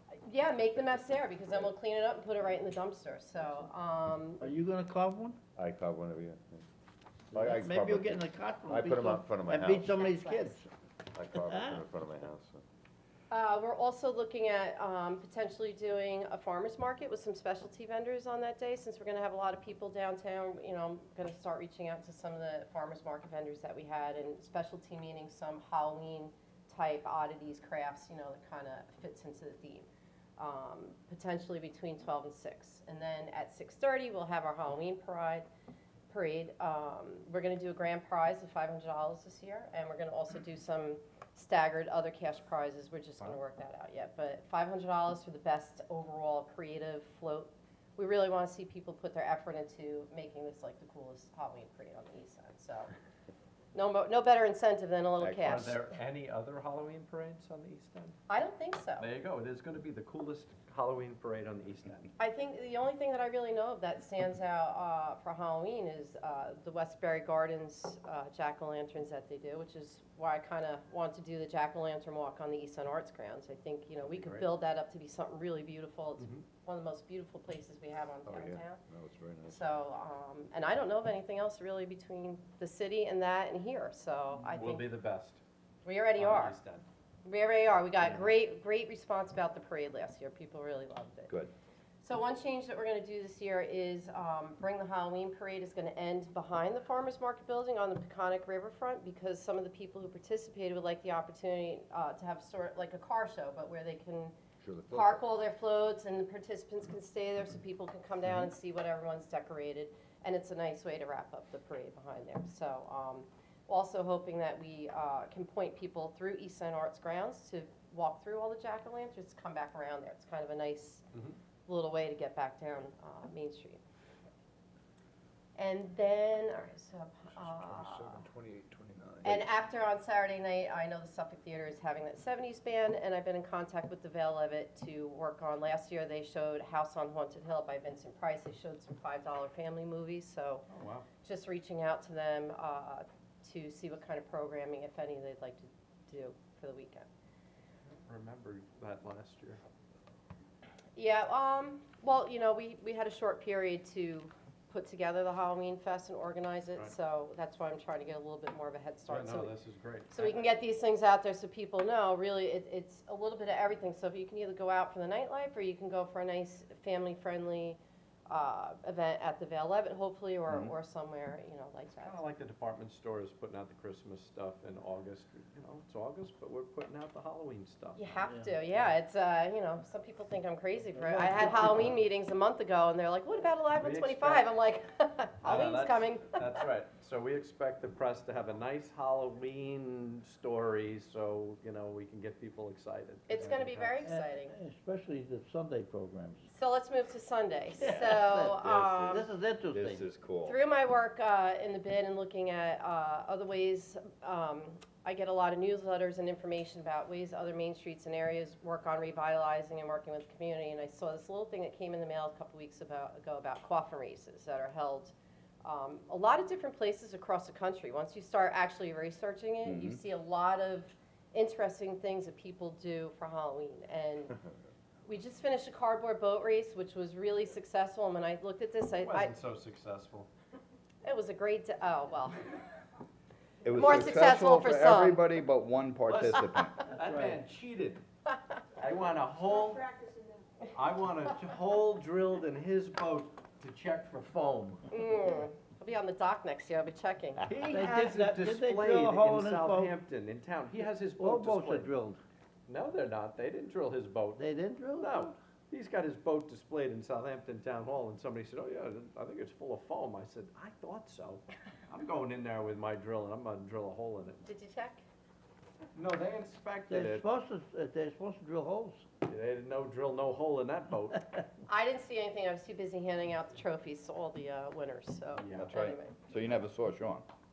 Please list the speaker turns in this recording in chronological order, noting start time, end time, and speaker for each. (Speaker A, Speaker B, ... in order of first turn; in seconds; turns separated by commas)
Speaker A: 0.2-4.4, Speaker B: 4.4-5.4, Speaker C: 5.5-6.6, Speaker B: 7.3-10.7, Speaker C: 7.3-10.0, Speaker A: 9.8-10.6, Speaker C: 11.1-12.6, Speaker B: 11.3-11.8, Speaker A: 13.3-35.5, Speaker A: 36.1-52.9, Speaker A: 53.7-55.8, Speaker C: 55.2-55.7, Speaker D: 55.4-58.2, Speaker A: 58.3-59.1, Speaker D: 59.0-62.1, Speaker A: 62.2-78.8, Speaker D: 74.1-74.4, Speaker C: 78.2-79.7, Speaker A: 79.5-84.9, Speaker D: 84.5-85.4, Speaker A: 85.8-86.5, Speaker D: 86.2-86.8, Speaker A: 87.2-91.3, Speaker A: 92.0-104.3, Speaker C: 104.6-105.2, Speaker A: 104.9-121.0, Speaker A: 121.7-123.8, Speaker A: 125.5-128.2, Speaker C: 127.3-129.4, Speaker A: 129.2-140.7, Speaker D: 140.7-141.1, Speaker A: 141.2-147.1, Speaker D: 148.0-149.6, Speaker A: 150.9-159.5, Speaker D: 159.1-160.4, Speaker A: 160.1-172.2, Speaker E: 170.5-170.7, Speaker D: 172.0-178.9, Speaker A: 177.9-186.6, Speaker B: 178.3-178.5, Speaker B: 180.9-181.9, Speaker D: 183.8-184.4, Speaker D: 185.4-193.9, Speaker A: 193.3-194.5, Speaker B: 194.0-196.5, Speaker A: 196.5-199.3, Speaker B: 197.8-200.0, Speaker C: 198.3-200.6, Speaker A: 200.4-224.3, Speaker E: 219.6-220.0, Speaker A: 225.1-229.3, Speaker D: 229.0-230.3, Speaker A: 231.0-232.4, Speaker E: 233.6-236.9, Speaker A: 233.7-235.2, Speaker D: 236.1-238.0, Speaker B: 237.0-237.4, Speaker D: 238.8-240.2, Speaker D: 240.7-244.8, Speaker A: 244.9-247.4, Speaker D: 247.4-251.9, Speaker B: 247.7-250.0, Speaker B: 251.1-252.2, Speaker D: 252.7-254.4, Speaker B: 254.4-255.3, Speaker D: 255.0-264.4, Speaker A: 264.4-265.0, Speaker D: 265.9-267.2, Speaker B: 266.9-269.0, Speaker D: 269.2-271.4, Speaker A: 271.7-276.2, Speaker D: 275.3-275.7, Speaker E: 275.6-277.2